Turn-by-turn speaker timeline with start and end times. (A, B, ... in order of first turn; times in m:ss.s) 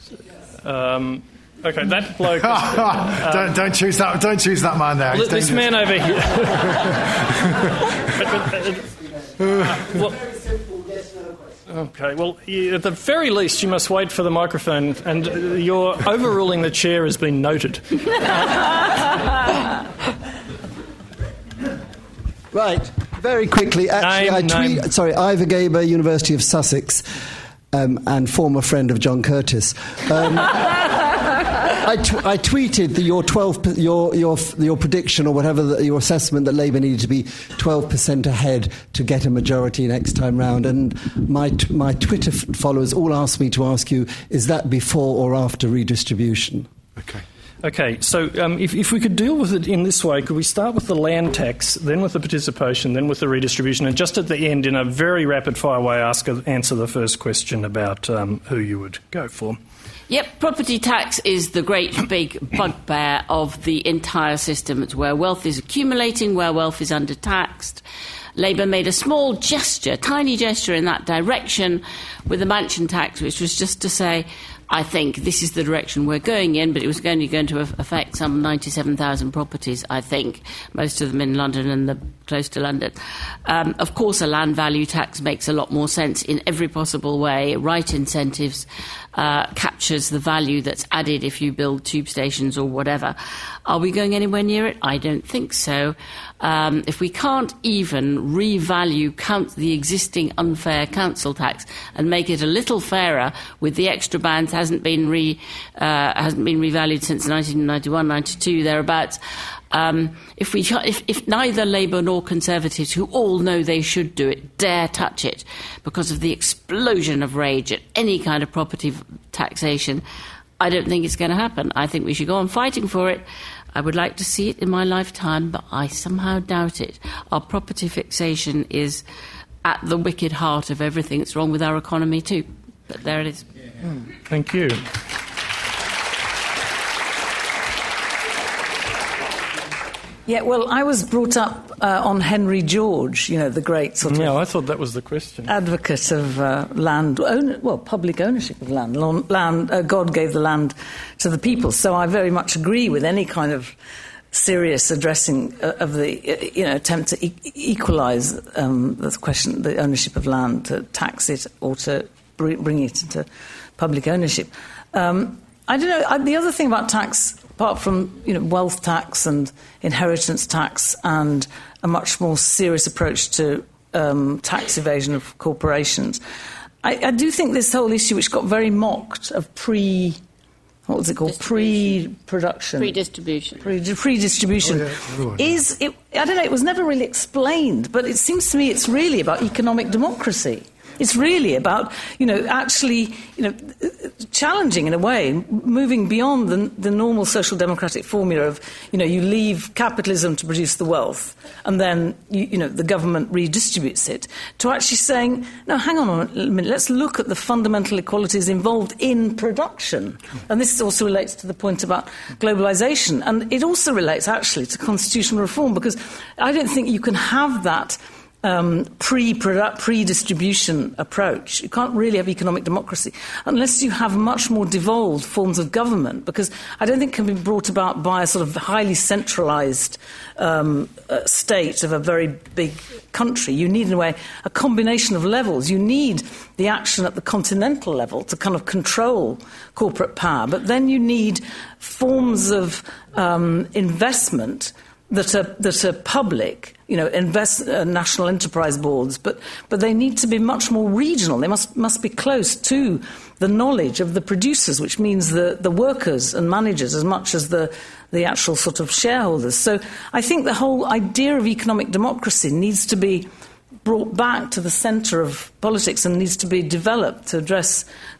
0:00.6-0:03.5 A
0:02.4-0:05.8 B
0:05.1-0:07.1 A
0:06.4-0:07.7 B
0:08.0-0:08.9 A
0:09.6-0:10.2 A
0:11.7-0:18.8 A
0:22.5-0:27.0 C
0:24.0-0:24.8 A
0:27.7-0:31.0 C
0:31.8-0:46.7 C
0:47.0-0:47.2 B
0:47.6-0:59.6 A
1:00.1-1:07.8 D
1:08.4-1:49.2 D
1:49.7-2:00.0 D
2:00.6-2:09.0 D
2:09.6-2:13.5 D
2:14.3-2:14.8 A
2:20.3-2:24.3 E
2:24.0-2:25.5 A
2:25.5-2:33.7 E
2:34.3-2:43.2 E
2:43.8-2:56.2 E
2:56.8-3:00.2 E
3:00.9-3:03.0 E
3:01.4-3:02.0 D
3:02.8-3:03.6 D
3:03.6-4:23.3 E
3:04.6-3:05.6 B
4:23.8-4:27.8 E